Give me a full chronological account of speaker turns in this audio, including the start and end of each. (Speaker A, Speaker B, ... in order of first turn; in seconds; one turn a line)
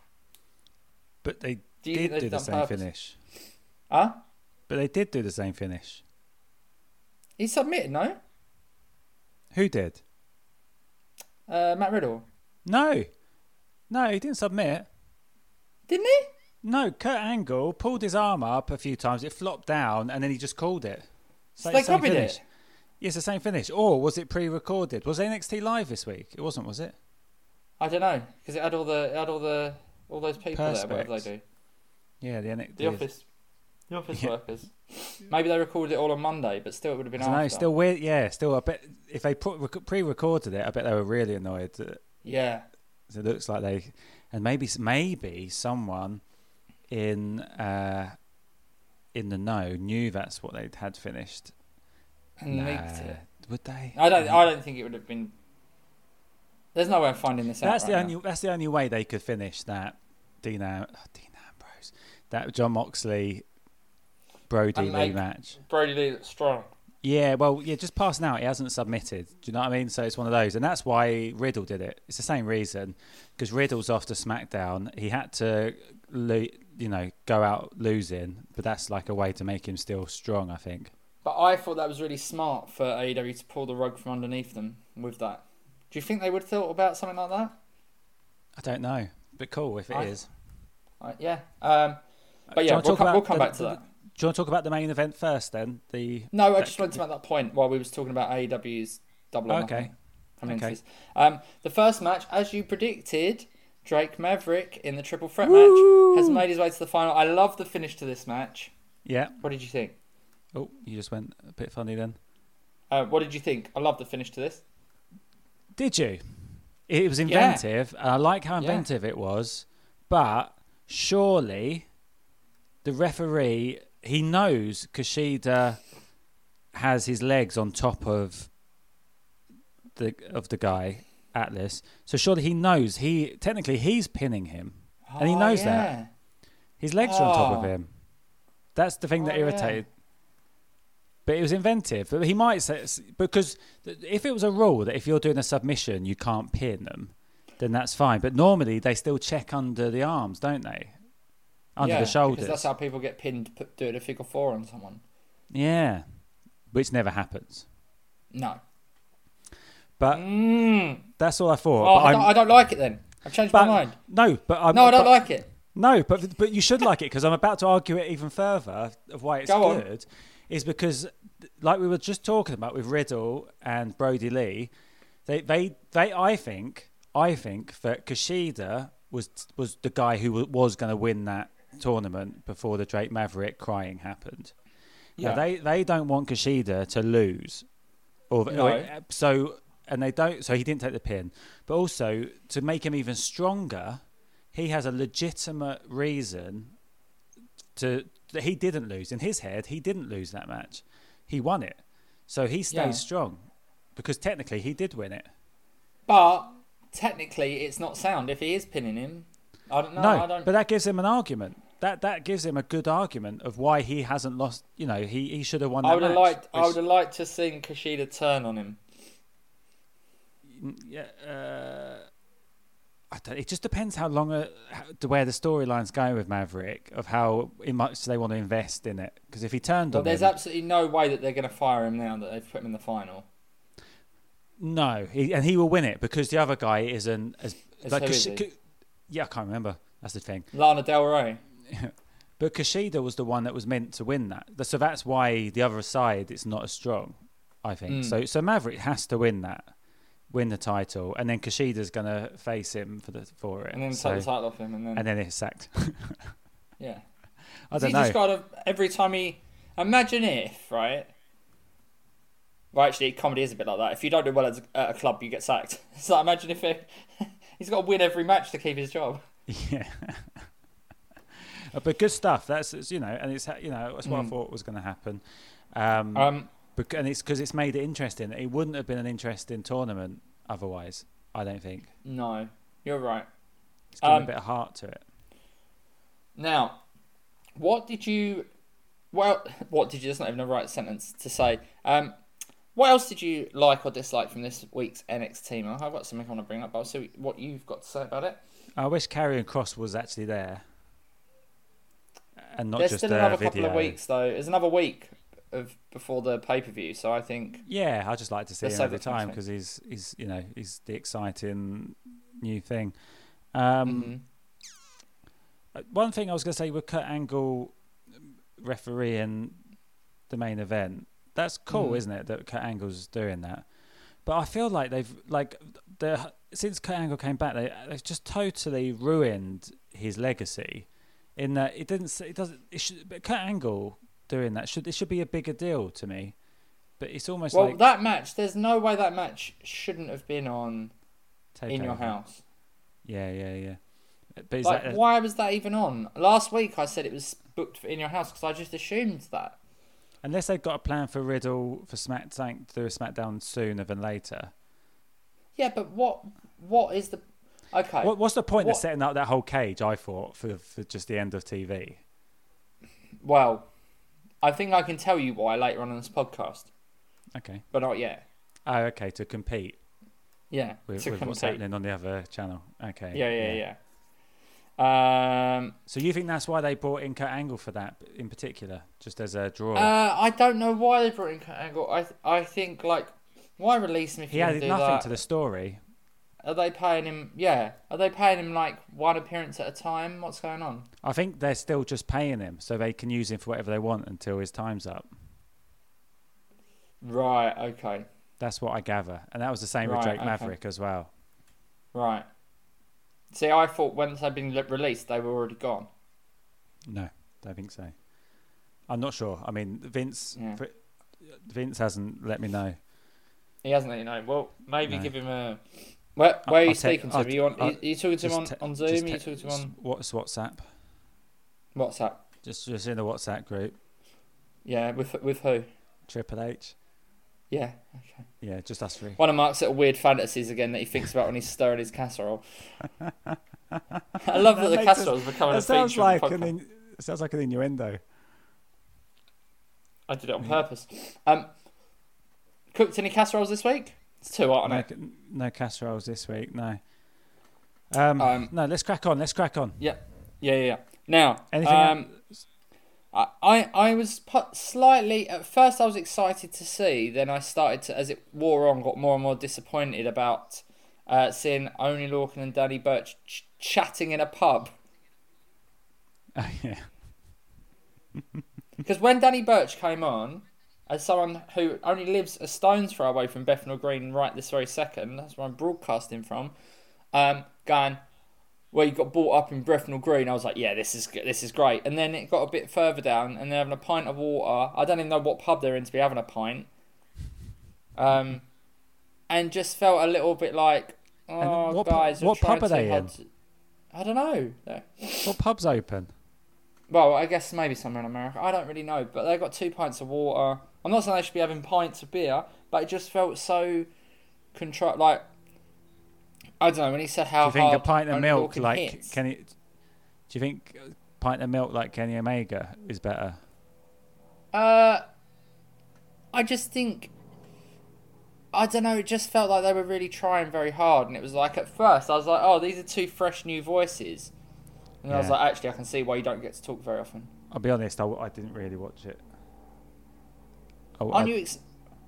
Speaker A: 1.2-3.2
Speaker B: 1.8-2.8
Speaker B: 3.9-4.2
Speaker A: 4.7-6.0
Speaker B: 7.4-8.2
Speaker A: 9.5-10.0
Speaker B: 11.5-12.3
Speaker A: 12.7-13.1
Speaker A: 13.9-14.9
Speaker B: 15.9-16.3
Speaker A: 16.6-22.4
Speaker B: 21.6-22.4
Speaker A: 23.0-26.9
Speaker B: 27.8-31.4
Speaker A: 30.5-31.2
Speaker A: 32.2-33.0
Speaker B: 32.8-33.2
Speaker B: 33.9-37.7
Speaker A: 37.2-42.0
Speaker B: 42.2-42.6
Speaker A: 43.1-46.2
Speaker A: 46.9-48.1
Speaker A: 49.1-51.5
Speaker B: 52.4-53.2
Speaker A: 52.5-54.4
Speaker B: 53.9-55.3
Speaker B: 56.7-58.1
Speaker A: 57.6-63.4
Speaker A: 64.5-65.6
Speaker B: 64.7-66.7
Speaker A: 67.0-80.9
Speaker B: 81.2-87.5
Speaker A: 88.5-90.3
Speaker B: 89.9-90.1
Speaker B: 91.0-92.0
Speaker A: 92.5-97.0
Speaker B: 92.5-93.8
Speaker B: 96.3-108.7
Speaker A: 99.5-99.9
Speaker A: 100.4-100.8
Speaker A: 105.4-106.4
Speaker A: 109.0-109.4
Speaker B: 109.4-109.9
Speaker A: 110.5-112.2
Speaker B: 112.9-114.6
Speaker A: 115.8-116.2
Speaker A: 116.9-121.8
Speaker B: 117.2-117.6
Speaker B: 118.6-118.8
Speaker A: 122.8-125.8
Speaker A: 126.7-128.5
Speaker A: 129.9-135.9
Speaker B: 135.1-136.1
Speaker A: 136.8-137.9
Speaker B: 137.0-137.7
Speaker A: 138.7-139.8
Speaker B: 139.2-139.8
Speaker A: 141.2-150.9
Speaker A: 151.8-152.7
Speaker B: 151.8-155.0
Speaker A: 155.5-156.0
Speaker A: 156.7-157.7
Speaker B: 158.3-158.6
Speaker A: 160.0-160.2
Speaker B: 160.1-161.1
Speaker A: 161.2-162.3
Speaker B: 161.8-163.9
Speaker A: 163.5-165.2
Speaker B: 164.7-165.5
Speaker A: 165.7-174.7
Speaker B: 169.4-169.8
Speaker A: 175.2-184.5
Speaker B: 185.2-185.4
Speaker A: 185.2-187.7
Speaker A: 188.3-194.0
Speaker B: 188.5-188.9
Speaker A: 194.5-196.7
Speaker A: 197.8-203.4
Speaker B: 202.7-203.0
Speaker A: 203.9-205.3
Speaker B: 206.1-210.5
Speaker A: 210.0-216.8
Speaker B: 215.8-218.8
Speaker A: 220.5-222.1
Speaker A: 223.1-230.3
Speaker B: 229.9-233.2
Speaker A: 234.6-238.5
Speaker B: 237.8-238.4
Speaker A: 239.1-240.5
Speaker B: 240.5-241.4
Speaker A: 241.7-249.7
Speaker B: 247.9-248.2
Speaker A: 250.3-254.3
Speaker B: 253.7-255.1
Speaker A: 254.9-256.2
Speaker B: 256.8-257.0
Speaker A: 257.7-258.2
Speaker B: 257.7-261.1
Speaker B: 262.7-269.2
Speaker A: 269.5-270.5
Speaker A: 271.3-275.2
Speaker B: 274.0-274.3
Speaker A: 275.7-281.9
Speaker B: 276.1-276.5
Speaker B: 282.0-283.3
Speaker A: 283.9-285.0
Speaker B: 284.0-284.3
Speaker B: 286.4-286.8
Speaker B: 287.6-288.5
Speaker B: 289.1-292.2
Speaker B: 292.7-298.4
Speaker A: 298.8-300.6
Speaker A: 302.5-304.0
Speaker B: 302.8-307.6
Speaker A: 307.6-312.9
Speaker B: 308.6-309.4
Speaker A: 313.5-314.1
Speaker B: 313.9-314.2
Speaker A: 315.7-319.6
Speaker A: 320.3-323.6
Speaker B: 321.7-322.0
Speaker A: 324.2-336.3
Speaker A: 337.0-337.8
Speaker B: 337.5-340.9
Speaker A: 341.5-342.1
Speaker B: 341.7-342.4
Speaker A: 343.0-343.8
Speaker A: 344.4-345.0
Speaker B: 344.6-349.6
Speaker A: 350.2-354.5
Speaker B: 355.6-358.8
Speaker A: 358.0-362.0
Speaker B: 363.2-363.7
Speaker B: 364.4-366.7
Speaker A: 367.3-367.6
Speaker B: 367.7-368.2
Speaker A: 368.6-369.8
Speaker B: 370.5-371.6
Speaker A: 370.9-373.6
Speaker B: 373.1-373.8
Speaker B: 374.8-375.8
Speaker A: 375.9-379.9
Speaker B: 379.7-385.1
Speaker A: 384.3-385.8
Speaker B: 386.4-390.9
Speaker A: 391.0-395.1
Speaker B: 397.0-398.1
Speaker A: 398.4-401.1
Speaker B: 399.8-400.5
Speaker B: 401.9-402.3
Speaker B: 403.3-405.9
Speaker A: 406.9-407.9
Speaker A: 408.9-412.8
Speaker B: 410.4-410.6
Speaker B: 413.6-415.6
Speaker A: 414.8-415.1
Speaker B: 416.1-419.7
Speaker A: 416.4-420.6
Speaker B: 421.7-422.2
Speaker A: 422.4-423.8
Speaker B: 424.6-425.7
Speaker A: 426.1-426.7
Speaker B: 427.5-428.2
Speaker A: 428.4-429.2
Speaker B: 429.2-432.4
Speaker A: 433.0-438.0
Speaker B: 434.2-436.5
Speaker B: 440.1-441.5
Speaker B: 442.7-444.9
Speaker A: 444.6-446.8
Speaker A: 447.9-449.8
Speaker B: 448.2-448.5
Speaker B: 449.8-452.1
Speaker A: 451.5-452.2
Speaker B: 453.1-464.7
Speaker A: 466.3-466.8
Speaker B: 468.8-476.5
Speaker B: 477.1-478.0
Speaker B: 478.7-486.7
Speaker B: 488.0-488.4
Speaker B: 489.3-493.3
Speaker A: 491.4-493.1
Speaker B: 493.9-495.3
Speaker A: 495.2-496.1
Speaker B: 496.9-503.9
Speaker B: 504.5-505.2
Speaker B: 506.6-509.2
Speaker A: 507.4-509.5
Speaker A: 510.3-513.4
Speaker B: 514.5-515.0
Speaker B: 516.3-517.1
Speaker B: 518.5-524.3
Speaker B: 525.0-527.3
Speaker A: 525.1-525.4
Speaker A: 527.5-529.2
Speaker A: 531.0-531.3
Speaker B: 531.1-531.6